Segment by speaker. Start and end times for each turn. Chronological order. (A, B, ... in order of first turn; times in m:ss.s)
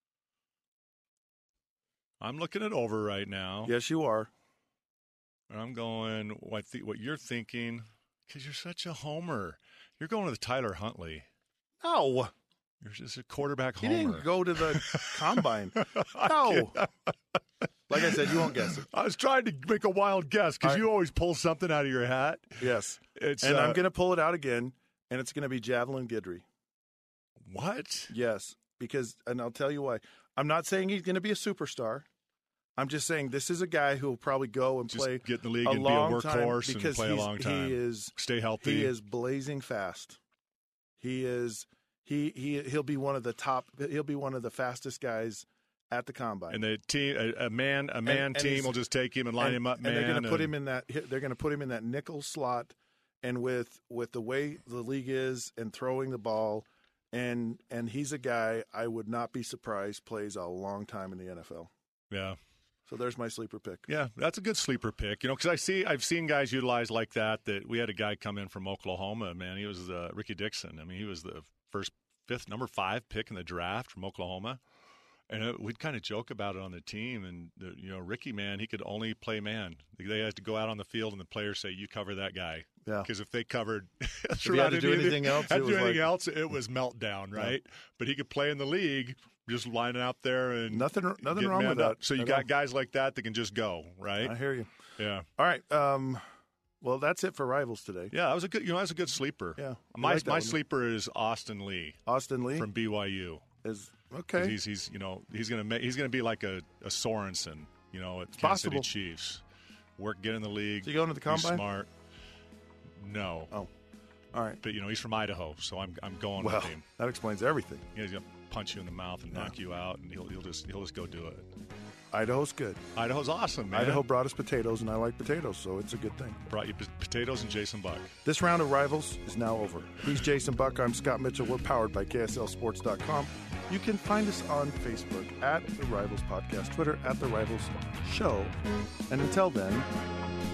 0:02.2-0:03.7 A
0:03.6-0:04.3 B
0:05.5-0:11.2 A
0:11.8-0:12.3 B
0:12.8-0:17.1 A
0:13.8-0:16.7 B
0:17.9-0:18.8 B
0:17.9-0:22.6 A
0:22.6-0:26.4 B
0:23.2-0:23.8 A
0:27.5-0:28.1 A
0:28.1-0:32.0 B
0:32.8-0:38.1 B
0:34.9-0:38.9 A
0:38.6-0:40.2 B
0:41.0-0:46.6 B
0:46.5-0:50.5 A
0:48.1-0:48.7 B
0:49.4-1:01.7 B
1:02.1-1:02.4 A
1:02.9-1:03.8 B
1:03.9-1:14.6 A
1:15.3-1:34.4 A
1:24.5-1:26.0 B
1:30.7-1:32.4 B
1:34.2-1:34.7 B
1:35.0-1:35.2 A
1:35.4-1:36.2 B
1:36.8-1:38.0 B
1:38.1-1:42.0 A
1:39.8-1:40.5 B
1:42.1-1:42.6 B
1:42.5-1:43.4 A
1:43.6-1:44.5 B
1:44.4-1:49.4 A
1:48.4-1:48.8 B
1:50.0-1:51.9 A
1:50.8-1:51.6 B
1:53.0-1:53.6 A
1:54.6-1:56.8 A
1:56.4-1:57.8 B
1:57.9-2:01.5 A
2:02.1-2:02.8 B
2:02.9-2:04.1 A
2:03.7-2:06.3 B
2:06.5-2:08.1 A
2:08.2-2:18.5 B
2:19.1-2:19.8 B